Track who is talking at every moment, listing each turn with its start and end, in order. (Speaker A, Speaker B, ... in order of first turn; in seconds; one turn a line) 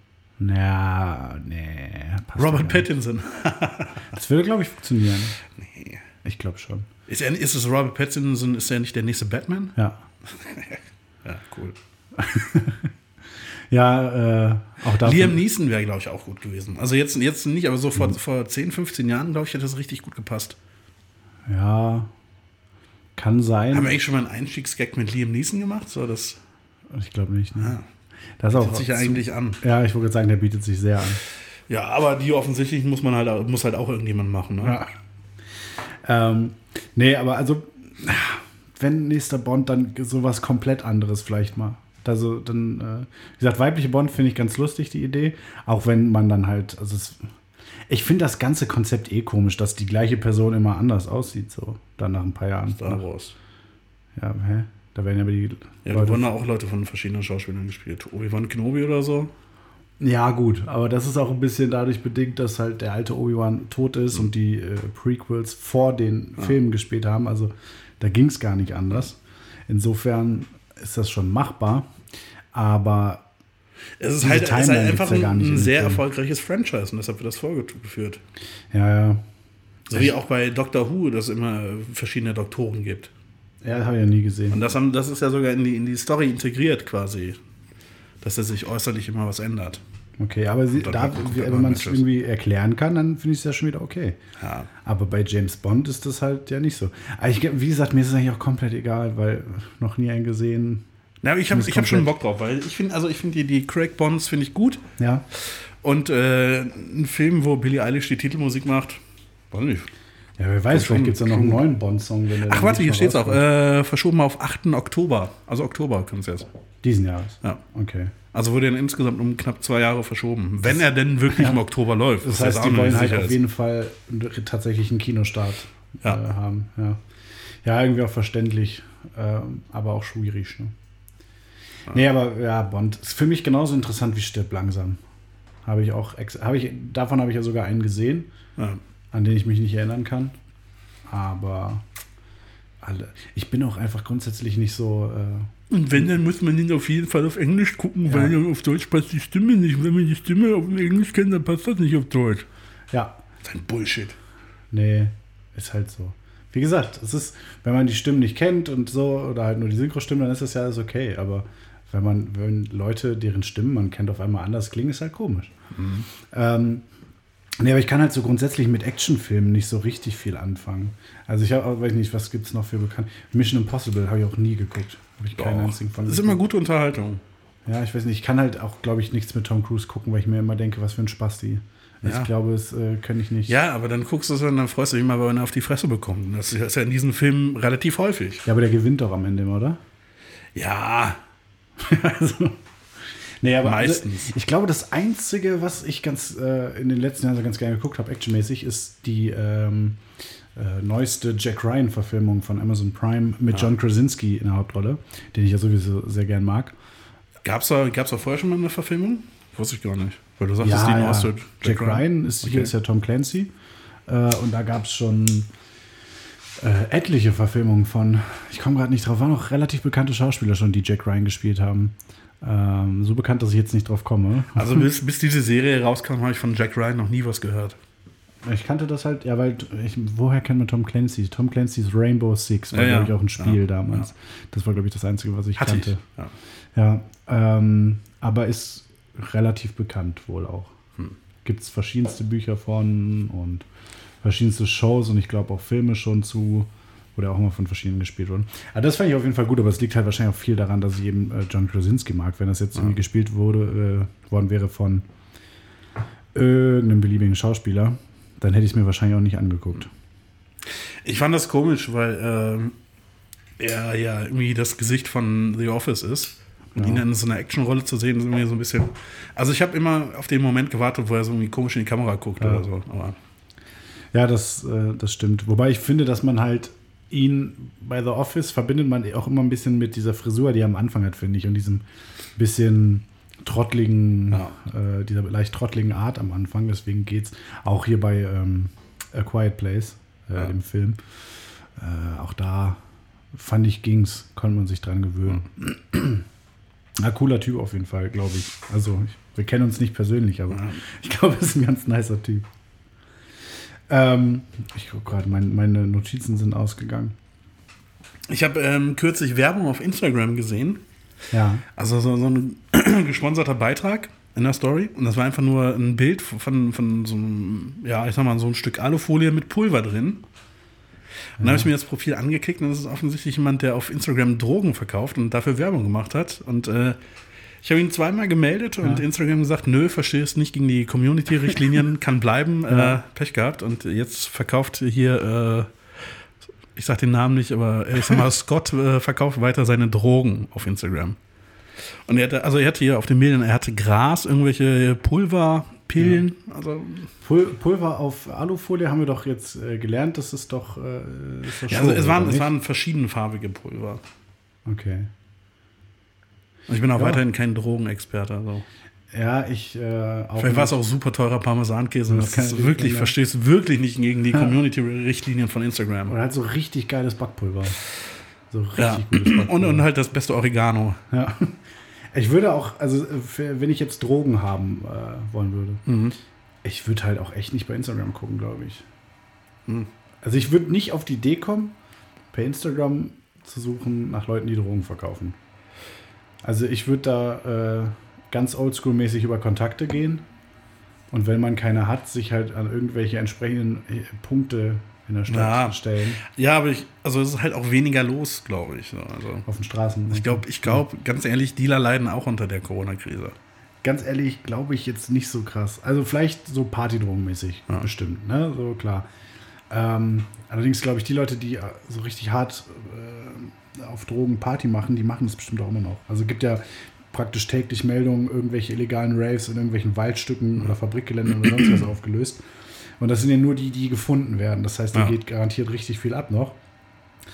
Speaker A: 0.4-2.9
Speaker B: 2.4-4.1
Speaker A: 4.1-5.3
Speaker B: 5.5-6.0
Speaker A: 6.2-6.9
Speaker B: 7.1-11.8
Speaker A: 12.2-12.9
Speaker A: 13.7-15.4
Speaker B: 15.0-20.6
Speaker A: 21.5-22.1
Speaker A: 23.1-24.0
Speaker B: 23.7-26.4
Speaker A: 26.9-27.8
Speaker B: 27.6-27.9
Speaker A: 28.4-31.2
Speaker B: 28.5-29.6
Speaker B: 31.7-34.8
Speaker A: 34.6-34.9
Speaker A: 36.0-47.2
Speaker A: 47.9-53.0
Speaker B: 52.7-53.3
Speaker A: 54.1-56.3
Speaker B: 55.8-59.3
Speaker A: 60.0-71.9
Speaker A: 72.5-73.2
Speaker B: 74.0-78.2
Speaker A: 74.2-76.0
Speaker A: 78.7-79.2
Speaker B: 79.9-83.1
Speaker A: 83.6-84.6
Speaker B: 84.5-87.4
Speaker B: 88.2-89.8
Speaker A: 90.2-94.2
Speaker B: 90.8-92.0
Speaker B: 94.4-94.7
Speaker A: 94.8-100.8
Speaker B: 101.2-104.8
Speaker A: 101.5-102.1
Speaker A: 105.0-105.2
Speaker B: 105.5-109.9
Speaker A: 110.4-113.4
Speaker B: 110.7-111.6
Speaker B: 112.4-116.5
Speaker A: 116.8-118.1
Speaker B: 118.3-123.4
Speaker A: 121.3-121.6
Speaker A: 122.2-127.0
Speaker A: 127.6-130.7
Speaker A: 131.9-135.0
Speaker A: 135.6-138.3
Speaker A: 139.1-140.3
Speaker A: 141.1-141.8
Speaker A: 142.8-145.5
Speaker B: 145.7-152.4
Speaker A: 148.1-148.4
Speaker A: 152.9-153.2
Speaker B: 153.4-154.2
Speaker A: 154.7-165.5
Speaker B: 165.7-166.1
Speaker A: 166.3-166.8
Speaker A: 167.6-176.4
Speaker B: 175.3-177.2
Speaker A: 177.7-183.6
Speaker B: 182.0-182.3
Speaker B: 183.5-188.4
Speaker A: 188.4-189.8
Speaker B: 190.5-191.2
Speaker A: 191.8-192.6
Speaker A: 193.4-200.0
Speaker B: 193.6-194.3
Speaker A: 200.6-206.7
Speaker B: 207.4-212.7
Speaker A: 210.6-213.5
Speaker A: 214.1-215.5
Speaker A: 216.6-224.8
Speaker B: 224.5-227.8
Speaker A: 228.4-236.0
Speaker B: 232.7-234.1
Speaker B: 235.6-236.3
Speaker A: 236.7-240.7
Speaker A: 241.4-243.7
Speaker A: 244.2-255.1
Speaker A: 256.3-259.9
Speaker B: 261.0-262.7
Speaker B: 263.6-273.1
Speaker A: 266.7-267.0
Speaker A: 272.4-272.6
Speaker A: 274.1-281.8
Speaker A: 282.4-291.0
Speaker B: 284.3-284.6
Speaker A: 291.8-292.8
Speaker A: 293.3-296.2
Speaker A: 297.0-302.4
Speaker B: 300.5-300.8
Speaker A: 303.9-307.1
Speaker B: 308.3-310.8
Speaker A: 311.3-311.6
Speaker B: 311.8-320.2
Speaker A: 321.4-321.7
Speaker B: 321.4-327.0
Speaker B: 327.6-335.7
Speaker A: 332.7-333.0
Speaker B: 336.7-341.2
Speaker B: 342.1-347.1
Speaker A: 347.2-352.5
Speaker B: 351.7-354.0
Speaker A: 354.6-355.1
Speaker B: 356.7-358.6
Speaker A: 356.9-357.2
Speaker A: 359.1-360.7
Speaker B: 360.4-366.1
Speaker A: 362.1-363.1
Speaker A: 366.1-367.8
Speaker A: 368.5-369.9
Speaker B: 368.8-371.0
Speaker A: 371.1-371.6
Speaker A: 372.1-375.8
Speaker B: 375.9-376.1
Speaker A: 376.6-378.8
Speaker A: 380.2-381.7
Speaker A: 382.3-385.4
Speaker A: 386.4-390.2
Speaker A: 391.1-396.2
Speaker B: 395.3-399.4
Speaker A: 399.4-400.8
Speaker B: 400.1-403.3
Speaker A: 403.8-409.1
Speaker A: 409.7-422.4
Speaker A: 423.0-426.6